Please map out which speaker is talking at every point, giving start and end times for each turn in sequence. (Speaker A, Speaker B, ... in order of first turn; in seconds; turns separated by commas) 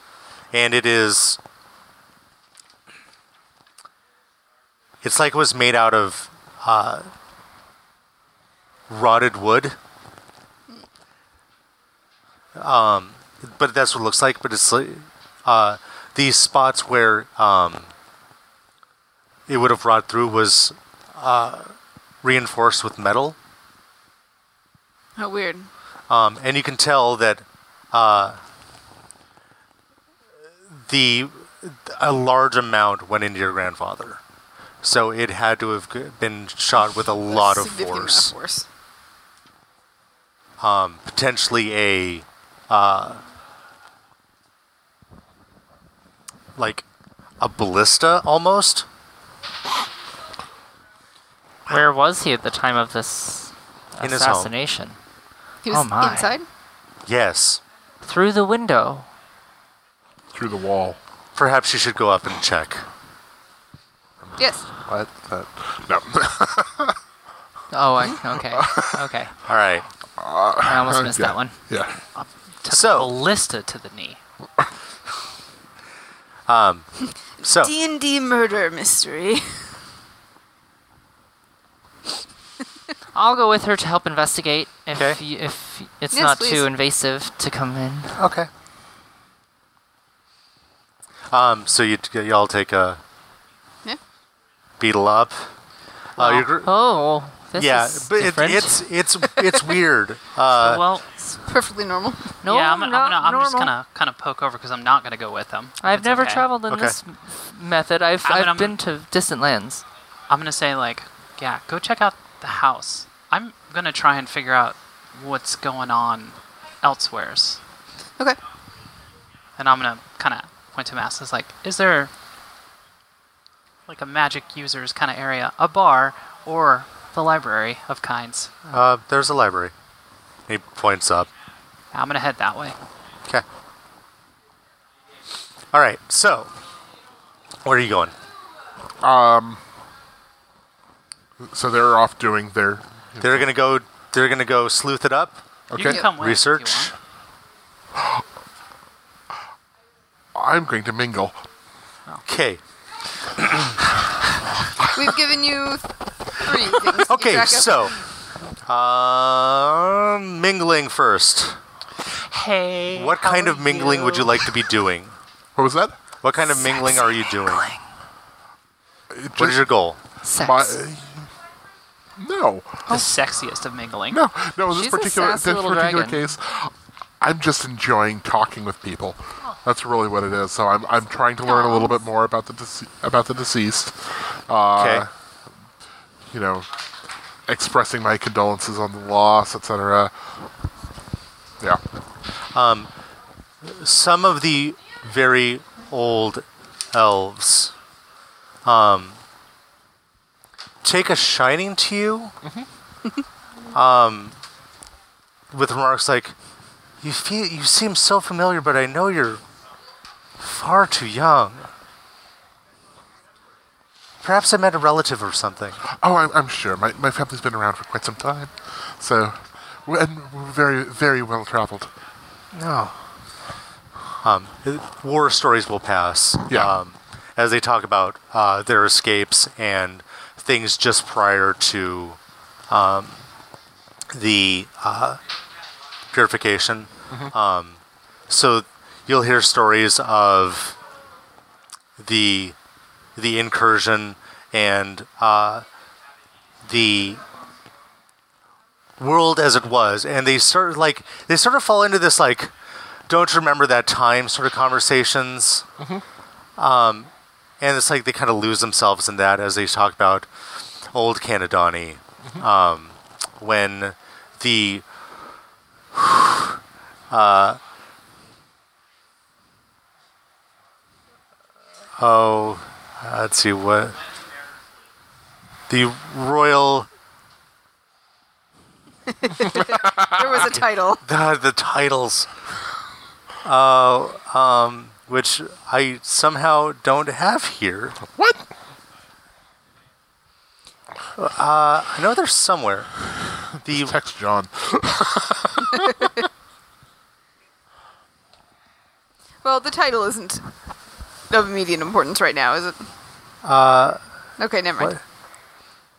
Speaker A: 0.5-1.4, Speaker A: 5.0-7.1, Speaker A: 8.9-9.8, Speaker A: 12.6-17.9, Speaker A: 19.5-23.4, Speaker B: 25.2-25.7, Speaker A: 26.1-28.4, Speaker A: 30.7-34.2, Speaker A: 34.8-38.3, Speaker B: 37.3-38.7, Speaker A: 40.6-43.2, Speaker A: 46.5-46.8, Speaker A: 47.4-48.9, Speaker C: 51.7-55.0, Speaker A: 54.0-54.5, Speaker B: 55.6-56.5, Speaker C: 55.7-56.3, Speaker A: 57.0-57.6, Speaker C: 58.0-59.1, Speaker D: 60.3-61.0, Speaker A: 61.4-62.9, Speaker B: 64.4-64.6, Speaker D: 64.8-67.0, Speaker C: 67.7-69.3, Speaker D: 68.1-69.1, Speaker A: 69.5-69.8, Speaker D: 70.2-72.0, Speaker C: 70.6-71.6, Speaker E: 72.2-74.2, Speaker A: 72.7-73.1, Speaker A: 76.5-76.9, Speaker B: 77.0-79.7, Speaker A: 77.4-77.7, Speaker C: 83.1-88.2, Speaker A: 84.9-85.2, Speaker B: 86.1-86.6, Speaker A: 88.2-88.5, Speaker A: 91.3-93.0, Speaker A: 94.8-95.5, Speaker A: 96.2-96.7, Speaker C: 96.2-98.8, Speaker A: 97.5-100.9, Speaker E: 100.5-101.1, Speaker B: 101.2-102.4, Speaker C: 102.4-103.7, Speaker E: 102.4-106.5, Speaker C: 105.8-109.8, Speaker A: 106.7-107.0, Speaker E: 108.2-108.8, Speaker E: 110.3-117.6, Speaker E: 119.6-122.1, Speaker E: 123.9-128.5, Speaker A: 128.7-129.7, Speaker A: 130.5-131.3, Speaker E: 131.9-132.8, Speaker A: 135.7-136.5, Speaker A: 137.6-138.1, Speaker D: 139.0-139.6, Speaker D: 141.4-143.4, Speaker A: 143.2-146.9, Speaker D: 145.7-146.0, Speaker E: 145.7-146.9, Speaker D: 150.3-151.4, Speaker A: 152.2-152.6, Speaker A: 153.2-153.8, Speaker B: 154.9-157.9, Speaker A: 157.0-158.0, Speaker A: 158.6-161.6, Speaker E: 162.1-164.5, Speaker A: 162.9-165.1, Speaker D: 165.6-166.0, Speaker A: 166.2-167.7, Speaker C: 166.8-167.8, Speaker D: 169.1-169.7, Speaker A: 169.4-170.0, Speaker C: 170.2-170.8, Speaker D: 170.4-171.3, Speaker D: 172.2-173.1, Speaker E: 172.9-174.2, Speaker D: 174.1-185.1, Speaker C: 174.7-176.2, Speaker B: 181.4-181.9, Speaker A: 184.7-185.1, Speaker D: 186.3-186.7, Speaker D: 187.5-190.2, Speaker A: 192.5-192.9, Speaker A: 193.6-197.7, Speaker A: 198.6-199.2, Speaker A: 200.8-202.3, Speaker A: 203.7-204.4, Speaker A: 205.5-206.3, Speaker A: 207.0-209.4, Speaker A: 210.4-211.7, Speaker A: 214.2-215.8, Speaker D: 215.8-221.9, Speaker A: 222.5-223.0, Speaker A: 224.2-232.2, Speaker D: 226.5-226.8, Speaker A: 232.7-233.2, Speaker A: 234.1-235.2, Speaker A: 236.1-240.8, Speaker A: 242.0-242.6, Speaker A: 243.2-245.7, Speaker A: 246.6-247.2, Speaker A: 249.0-252.5, Speaker A: 253.1-255.7, Speaker A: 256.6-260.3, Speaker A: 260.9-264.8, Speaker A: 265.9-267.6, Speaker A: 272.0-274.0, Speaker A: 275.7-276.9, Speaker B: 279.1-281.0, Speaker D: 279.6-280.1, Speaker A: 280.4-282.3, Speaker A: 283.4-288.0, Speaker D: 288.1-288.4, Speaker A: 291.1-292.9, Speaker A: 293.6-293.9, Speaker D: 293.7-296.2, Speaker B: 299.4-300.4, Speaker B: 301.3-302.9, Speaker A: 303.4-304.0, Speaker B: 304.4-305.0